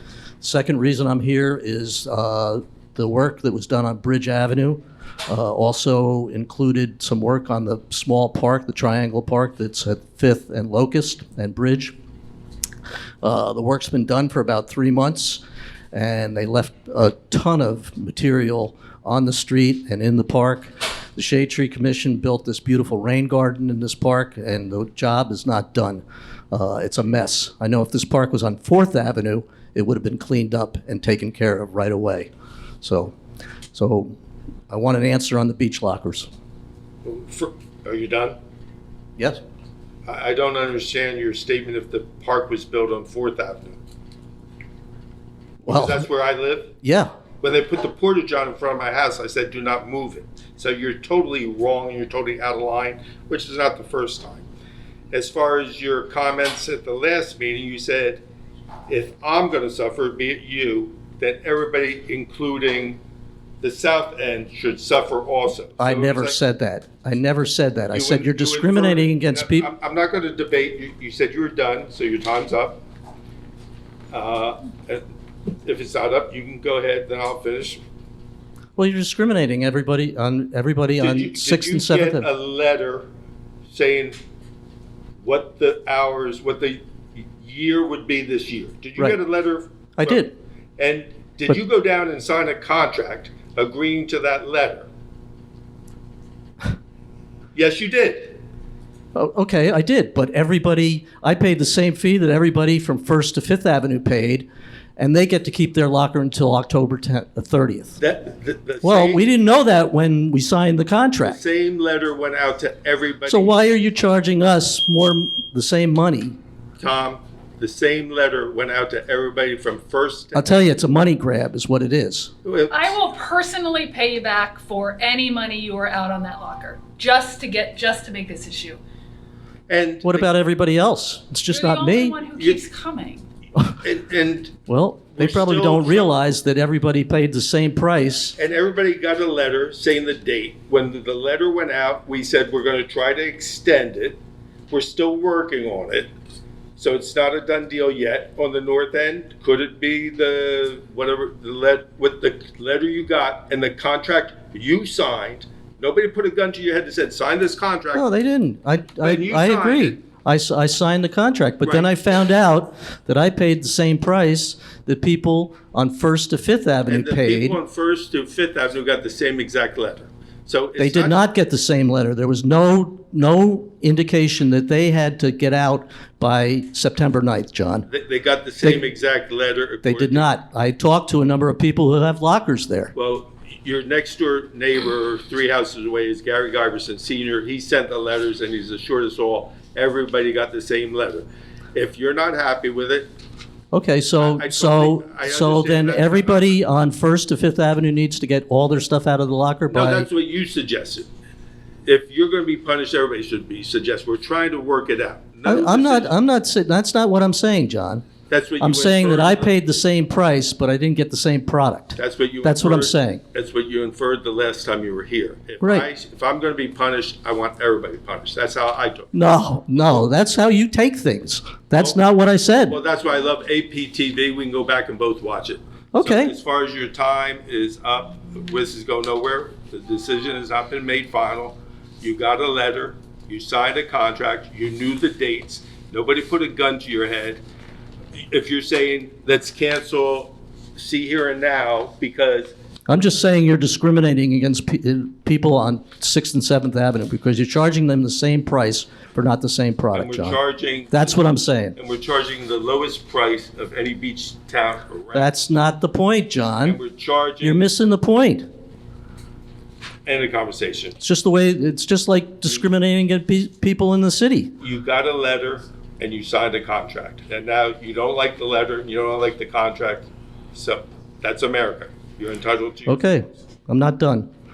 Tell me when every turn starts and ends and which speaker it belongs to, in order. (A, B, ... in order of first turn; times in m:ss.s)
0:00.4-0:11.9 A
0:13.2-0:32.3 A
0:32.8-0:33.2 A
0:33.7-0:34.1 A
0:34.7-0:36.3 A
0:37.0-0:38.4 B
0:40.0-0:43.8 B
0:45.6-0:46.0 A
0:45.7-0:46.8 B
0:46.8-0:47.1 A
0:47.4-0:54.4 B
0:55.1-0:58.2 B
0:58.9-1:03.0 B
1:03.6-1:06.4 B
1:05.8-1:09.7 A
1:07.9-1:12.8 B
1:14.1-1:15.0 B
1:15.6-1:17.8 B
1:18.8-1:22.3 A
1:21.0-1:23.1 B
1:23.7-1:24.2 B
1:25.2-1:26.8 B
1:27.4-1:30.2 B
1:30.0-1:30.3 A
1:30.8-1:34.9 B
1:37.5-1:38.4 B
1:39.1-1:44.4 A
1:45.0-1:48.0 A
1:48.0-1:49.2 B
1:48.8-1:51.4 A
1:51.3-1:53.6 B
1:53.2-1:56.4 A
1:56.8-2:00.4 B
2:00.3-2:02.3 A
2:02.4-2:02.9 B
2:02.7-2:08.8 C
2:09.7-2:10.3 B
2:10.0-2:12.2 A
2:11.5-2:13.2 C
2:13.8-2:14.6 B
2:14.7-2:18.4 A
2:15.2-2:16.1 B
2:18.4-2:26.1 B
2:26.8-2:38.0 B
2:37.9-2:47.6 A
2:39.0-2:40.0 B
2:41.6-2:41.9 B
2:46.9-2:51.2 B
2:50.8-2:57.9 A
2:57.9-3:00.3 B
2:59.8-3:02.9 A
3:02.9-3:13.1 B
3:13.7-3:20.1 A
3:14.2-3:16.5 B
3:19.7-3:21.1 B
3:21.8-3:26.1 B
3:25.4-3:28.1 A
3:28.3-3:29.6 B
3:28.6-3:33.2 A
3:32.0-3:39.1 B
3:35.6-3:35.8 A
3:39.1-3:42.8 A
3:42.7-3:57.4 B
3:45.9-3:46.3 A
3:58.3-4:02.6 B
4:02.9-4:10.4 A
4:09.9-4:11.2 B
4:10.9-4:11.8 A
4:11.8-4:15.3 B
4:15.1-4:16.8 A
4:16.6-4:17.6 B
4:17.4-4:18.5 A
4:20.0-4:21.0 B
4:21.0-4:24.5 A
4:24.6-4:33.0 B
4:32.9-4:34.3 A